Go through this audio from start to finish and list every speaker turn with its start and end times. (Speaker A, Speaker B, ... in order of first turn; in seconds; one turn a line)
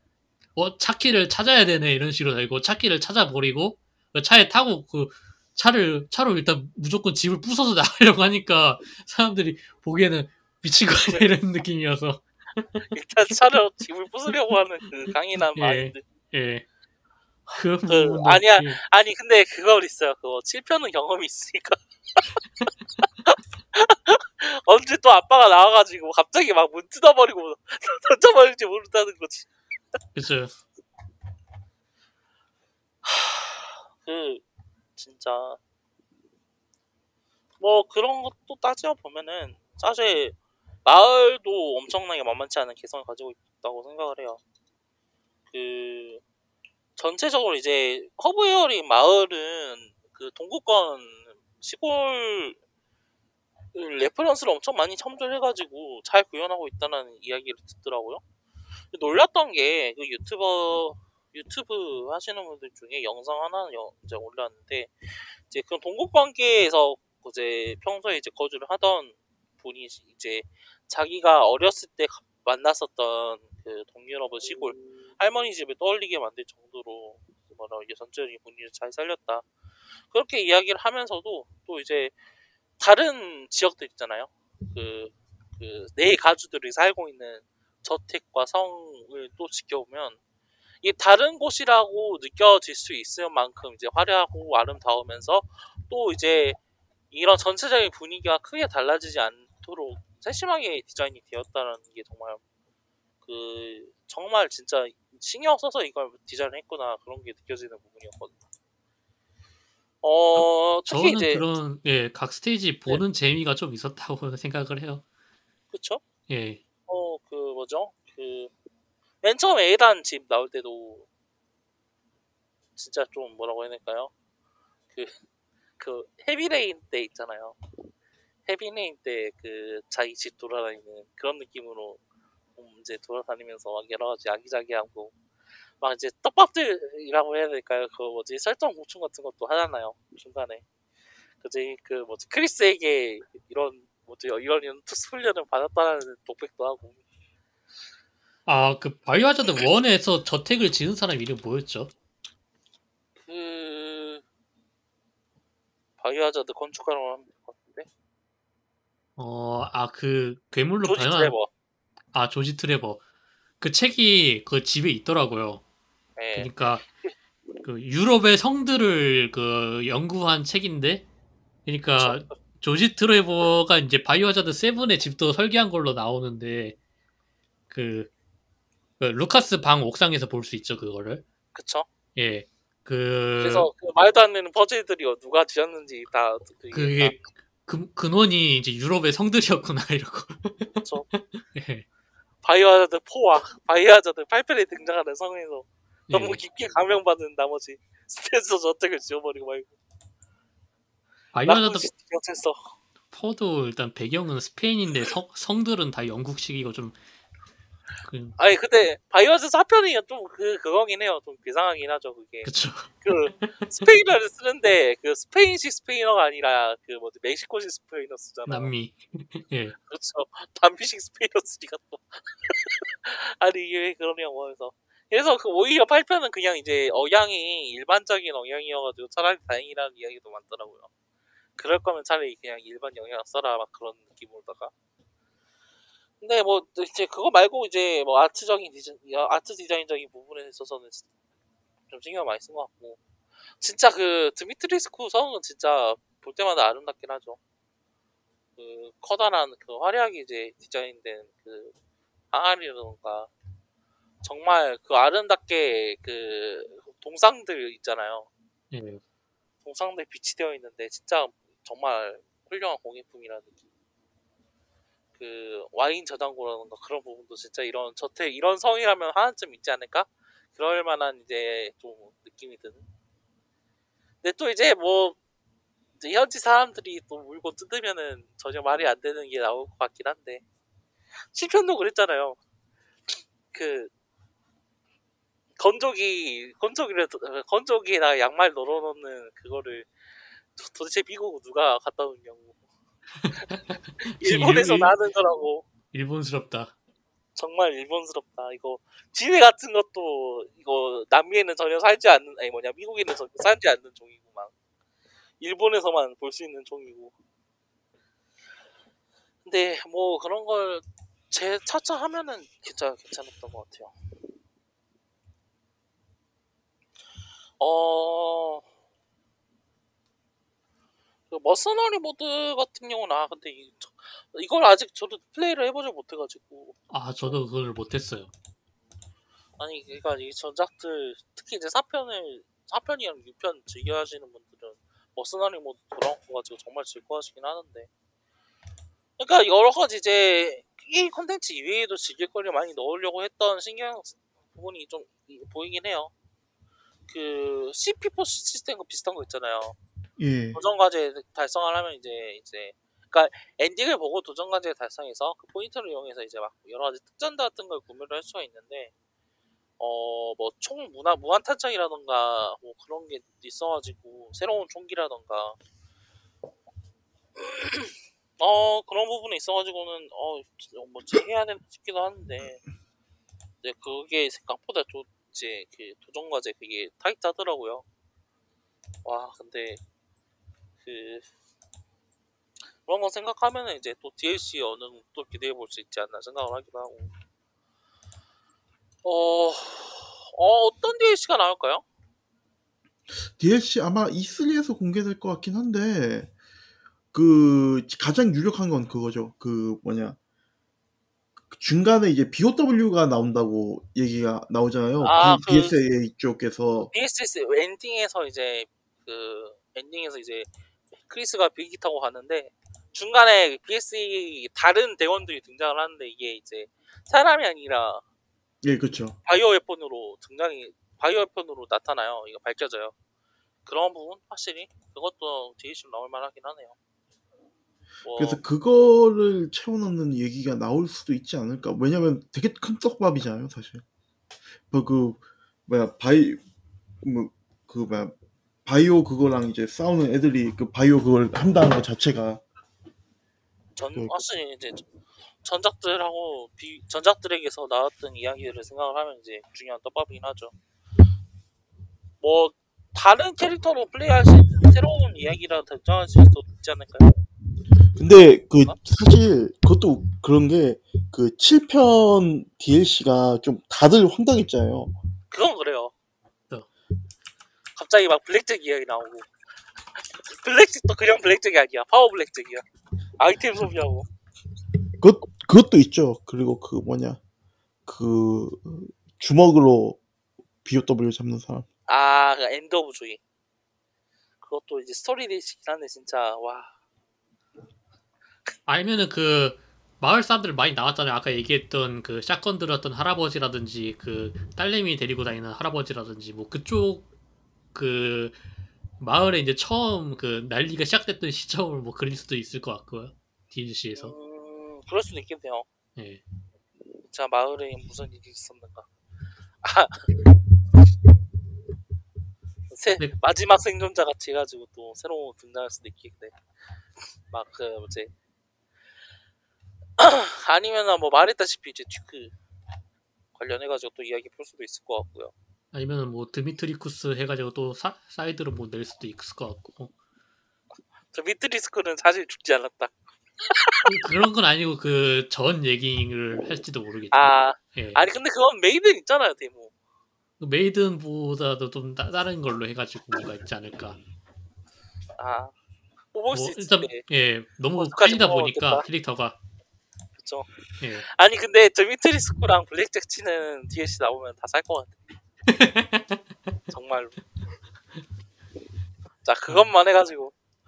Speaker A: 0.6-12.8
Speaker B: 12.9-16.0
Speaker A: 15.6-16.6
Speaker A: 17.5-18.8
Speaker B: 17.9-22.3
Speaker B: 23.2-29.5
Speaker A: 30.1-30.5
Speaker B: 33.0-34.4
Speaker B: 35.0-35.6
Speaker B: 37.6-44.4
Speaker B: 45.5-46.2
Speaker B: 47.0-52.6
Speaker B: 53.7-58.2
Speaker B: 58.9-64.9
Speaker B: 65.5-79.5
Speaker B: 80.1-82.1
Speaker B: 82.8-90.2
Speaker B: 90.8-96.6
Speaker B: 97.1-102.4
Speaker B: 103.2-108.3
Speaker B: 110.0-111.4
Speaker A: 110.3-115.0
Speaker B: 115.7-116.0
Speaker A: 116.3-116.6
Speaker B: 116.9-118.5
Speaker B: 119.2-121.0
Speaker B: 122.8-124.1
Speaker B: 125.8-127.6
Speaker B: 128.4-132.0
Speaker B: 132.6-135.1
Speaker B: 135.8-140.6
Speaker B: 141.4-147.0
Speaker A: 148.4-151.9
Speaker B: 153.2-154.2
Speaker B: 156.0-157.9
Speaker A: 159.2-161.3
Speaker B: 160.8-161.5
Speaker A: 162.1-163.0
Speaker A: 163.6-165.6
Speaker B: 166.2-167.1
Speaker A: 166.3-166.9
Speaker A: 167.6-171.1
Speaker A: 171.7-176.8
Speaker B: 172.0-172.4
Speaker A: 177.7-178.1
Speaker A: 179.0-181.2
Speaker B: 181.5-181.9
Speaker A: 182.2-183.7
Speaker B: 183.4-187.2
Speaker A: 186.7-191.8
Speaker B: 190.8-191.1
Speaker B: 192.4-199.7
Speaker A: 196.1-196.4
Speaker A: 201.3-201.9
Speaker B: 201.4-202.7
Speaker A: 203.1-207.0
Speaker A: 208.0-208.3
Speaker B: 208.4-212.5
Speaker A: 212.4-213.7
Speaker B: 213.0-218.7
Speaker A: 218.5-219.8
Speaker B: 219.8-230.9
Speaker B: 231.6-234.7
Speaker B: 236.2-241.0
Speaker B: 241.9-243.0
Speaker B: 243.6-247.4
Speaker B: 248.6-251.7
Speaker B: 252.3-253.3
Speaker B: 254.2-258.3
Speaker A: 258.7-259.0
Speaker B: 259.6-263.6
Speaker B: 265.2-272.8
Speaker B: 274.2-275.2
Speaker B: 276.0-280.4
Speaker B: 281.3-282.4
Speaker B: 283.1-283.9
Speaker B: 285.6-289.9
Speaker B: 290.6-292.6
Speaker A: 293.2-294.9
Speaker B: 293.4-295.7
Speaker A: 295.9-296.7
Speaker B: 297.4-304.5
Speaker B: 305.4-307.1
Speaker B: 309.4-313.9
Speaker B: 317.6-318.6
Speaker B: 321.3-326.8
Speaker A: 326.9-328.3
Speaker B: 329.6-337.9
Speaker B: 339.2-346.1
Speaker B: 347.1-349.8
Speaker C: 350.2-350.6
Speaker B: 350.5-358.9
Speaker B: 359.8-365.6
Speaker B: 367.4-372.6
Speaker B: 373.6-377.8
Speaker B: 379.0-379.8
Speaker B: 380.8-381.3
Speaker B: 382.8-387.1
Speaker B: 389.0-391.8
Speaker C: 393.1-396.3
Speaker C: 397.1-400.2
Speaker C: 401.5-406.9
Speaker B: 405.0-405.8
Speaker B: 406.9-410.5
Speaker B: 411.0-418.0
Speaker C: 418.6-419.2
Speaker B: 419.2-422.9
Speaker B: 423.6-426.7
Speaker B: 428.0-428.4
Speaker C: 428.1-433.8
Speaker C: 434.7-436.4
Speaker C: 437.0-442.4
Speaker B: 443.8-444.9
Speaker C: 443.9-444.2
Speaker B: 445.4-450.5
Speaker B: 452.2-457.1
Speaker C: 457.9-464.9
Speaker B: 465.3-465.9
Speaker B: 467.7-469.3
Speaker B: 470.0-472.6
Speaker B: 473.2-474.1
Speaker C: 475.0-477.2
Speaker C: 477.9-480.0
Speaker C: 480.6-481.6
Speaker B: 481.9-483.2
Speaker B: 484.4-486.7
Speaker A: 488.7-497.1
Speaker A: 497.7-498.4
Speaker A: 499.0-504.1
Speaker B: 503.9-505.7
Speaker A: 505.9-506.2
Speaker B: 507.0-508.9
Speaker B: 509.6-510.2
Speaker B: 512.7-516.4
Speaker B: 517.3-518.1
Speaker B: 520.0-522.3
Speaker B: 523.3-525.3
Speaker A: 525.7-529.9
Speaker B: 531.1-533.9
Speaker A: 533.9-538.0
Speaker B: 537.1-539.7
Speaker A: 540.4-544.0
Speaker B: 545.2-545.5
Speaker B: 546.1-547.0
Speaker A: 546.3-549.4
Speaker B: 547.8-548.8
Speaker B: 550.2-550.5
Speaker A: 550.8-551.1
Speaker B: 551.1-555.0
Speaker A: 555.5-556.2
Speaker B: 556.7-557.1
Speaker B: 559.2-560.3